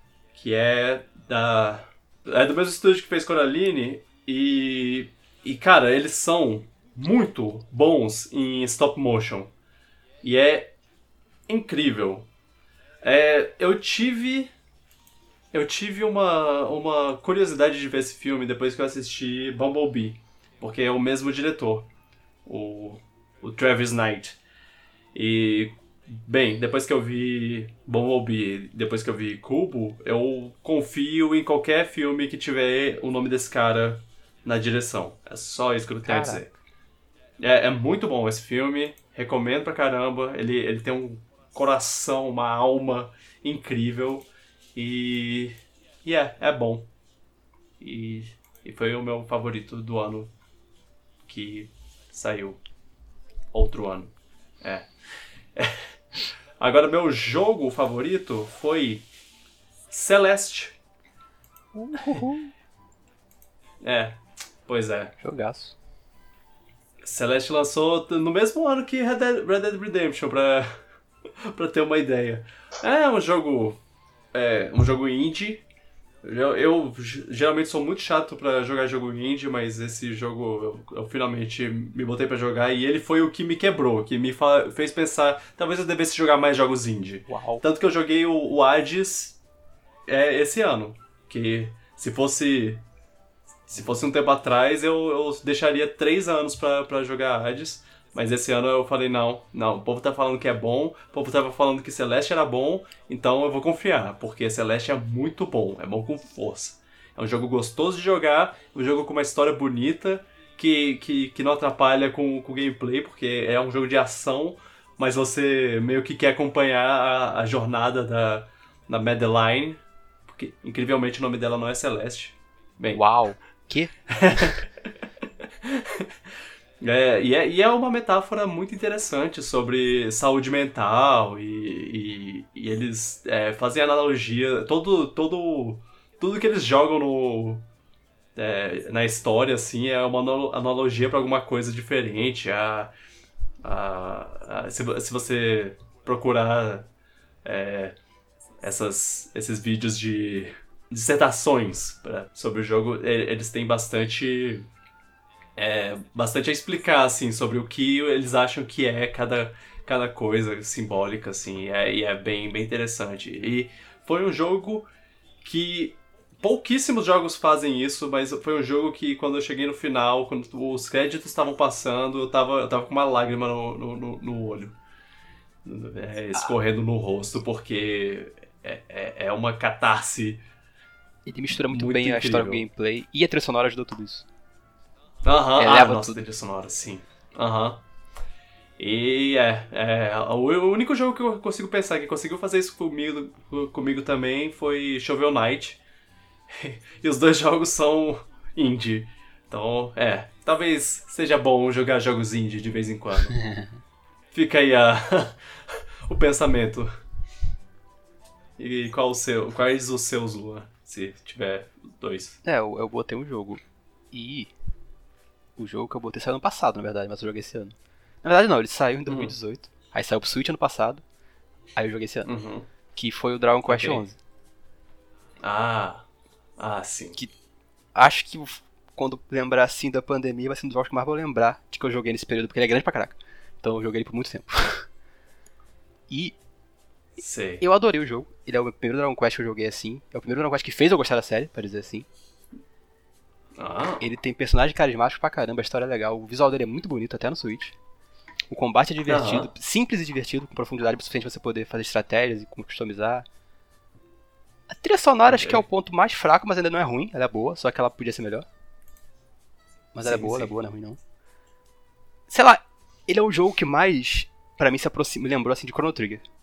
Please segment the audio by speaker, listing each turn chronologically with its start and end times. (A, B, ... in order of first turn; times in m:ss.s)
0:00.3-0:09.5 A
0:10.2-0:10.7 A
0:11.5-0:12.3 A
0:13.0-0:14.5 A
0:15.5-0:21.9 A
0:22.4-0:24.4 A
0:25.1-0:36.5 A
0:36.0-0:36.5 B
0:37.4-0:46.9 A
0:47.8-0:50.3 A
0:51.2-0:52.6 A
0:53.5-0:54.9 A
0:55.6-0:55.9 A
0:56.6-0:59.0 A
0:59.9-1:00.8 A
1:01.7-1:02.5 B
1:03.8-1:05.1 A
1:05.2-1:05.8 B
1:07.0-1:10.7 A
1:11.4-1:13.8 A
1:14.3-1:15.6 A
1:16.2-1:29.4 A
1:27.3-1:27.6 B
1:30.1-1:32.8 A
1:33.7-2:03.0 A
2:02.9-2:04.4 B
2:04.1-2:04.7 A
2:05.6-2:06.1 A
2:06.8-2:17.6 A
2:18.4-2:22.9 A
2:23.6-2:26.9 A
2:27.4-2:28.0 A
2:28.6-2:34.7 A
2:35.6-2:44.9 A
2:45.4-2:54.8 A
2:55.6-3:00.4 A
3:01.2-3:04.3 B
3:01.7-3:02.6 A
3:05.2-3:07.8 A
3:05.6-3:06.2 B
3:08.8-3:15.8 A
3:16.5-3:23.4 A
3:23.4-3:23.7 B
3:24.3-3:26.9 A
3:28.6-3:32.4 A
3:32.4-3:34.5 B
3:35.6-3:41.0 B
3:39.0-3:39.3 A
3:41.7-3:42.3 B
3:42.2-3:42.7 A
3:42.9-3:44.2 B
3:43.7-3:44.0 A
3:45.4-3:46.0 A
3:46.6-3:47.2 A
3:47.9-3:54.9 B
3:56.1-3:56.4 B
3:57.2-3:57.6 A
3:57.6-4:02.1 B
4:03.6-4:04.1 A
4:04.0-4:07.8 B
4:08.5-4:13.2 B
4:09.1-4:09.5 A
4:14.7-4:18.4 B
4:15.3-4:15.6 A
4:19.9-4:21.0 B
4:20.0-4:20.5 A
4:22.3-4:26.2 B